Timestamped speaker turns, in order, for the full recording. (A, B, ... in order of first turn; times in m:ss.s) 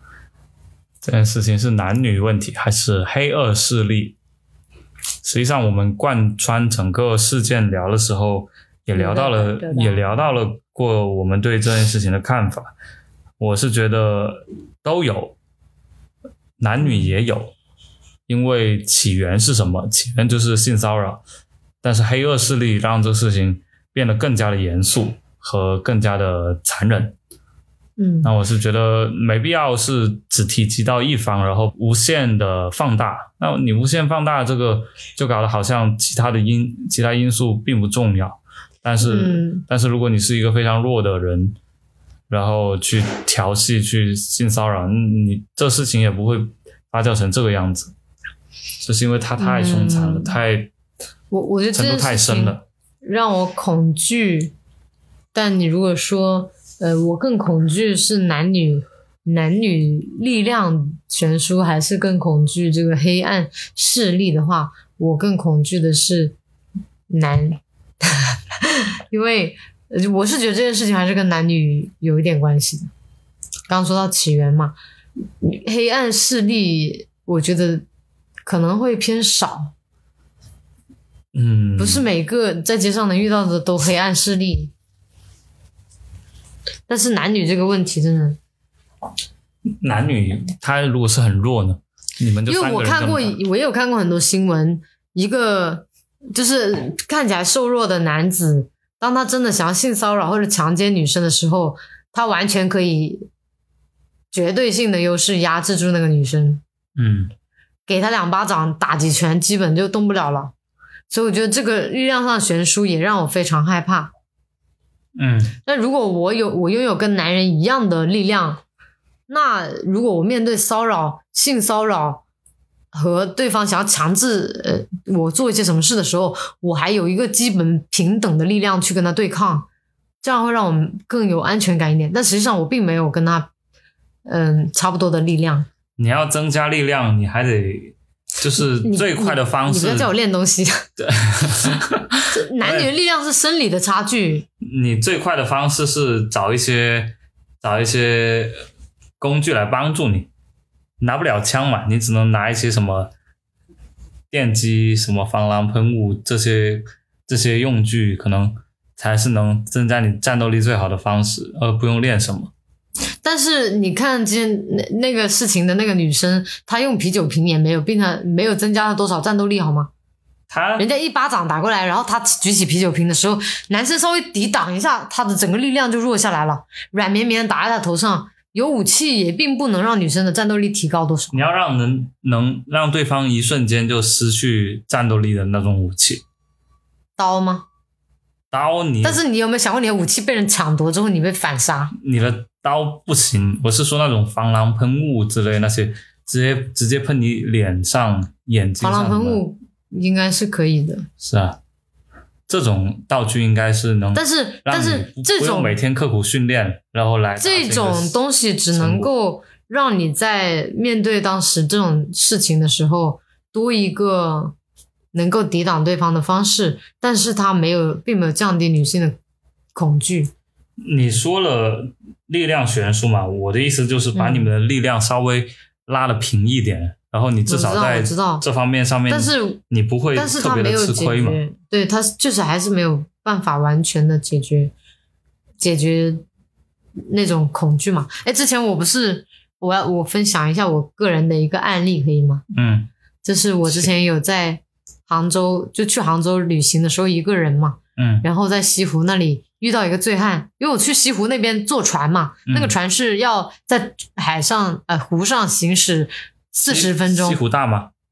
0:01.0-0:04.2 A
0:05.2-0:12.7 A
0:08.9-0:10.3 B
0:13.4-0:15.4 A
0:16.6-0:17.5 A
0:18.3-0:21.2 A
0:21.8-0:27.1 A
0:28.0-0:28.3 B
0:28.2-0:41.6 A
0:39.0-0:39.6 B
0:42.3-0:47.9 A
0:48.8-0:50.7 A
0:49.4-0:50.4 B
0:51.3-0:54.5 B
0:51.7-0:52.6 A
0:55.3-1:06.4 B
1:07.1-1:12.9 B
1:13.7-1:14.8 B
1:15.4-1:17.8 B
1:18.5-1:19.7 B
1:21.3-1:22.1 A
1:21.8-1:24.7 B
1:26.9-1:28.4 B
1:29.8-1:33.4 A
1:32.5-1:43.3 B
1:44.3-1:46.6 B
1:47.0-1:47.3 A
1:47.9-1:50.5 B
1:51.1-1:54.1 B
1:55.2-1:55.6 A
1:55.6-1:58.6 B
1:59.3-2:02.2 B
2:02.9-2:09.7 B
2:10.2-2:13.5 B
2:14.3-2:15.7 B
2:16.0-2:20.1 A
2:18.6-2:20.8 B
2:21.0-2:22.9 A
2:22.3-2:24.5 B
2:24.6-2:28.6 A
2:29.2-2:30.3 A
2:31.0-2:33.1 A
2:34.3-2:42.5 A
2:43.2-2:49.9 B
2:50.5-2:50.8 A
2:50.8-3:01.5 B
3:01.3-3:06.2 A
3:07.2-3:07.7 B
3:08.5-3:09.2 A
3:09.0-3:11.9 B
3:11.9-3:19.4 A
3:18.8-3:21.1 B
3:21.2-3:21.6 A
3:22.5-3:28.2 A
3:24.1-3:25.8 B
3:27.4-3:34.5 B
3:28.7-3:29.1 A
3:35.1-3:39.2 B
3:39.8-3:40.3 B
3:40.8-3:51.4 A
3:44.1-3:44.5 B
3:47.5-3:48.4 B
3:49.1-3:49.6 B
3:50.1-3:54.7 B
3:55.6-3:56.2 B
3:57.1-4:02.4 B
4:02.5-4:02.9 A
4:03.2-4:17.4 B
4:03.7-4:03.9 A
4:08.0-4:08.2 A
4:12.5-4:12.7 A
4:16.7-4:17.9 A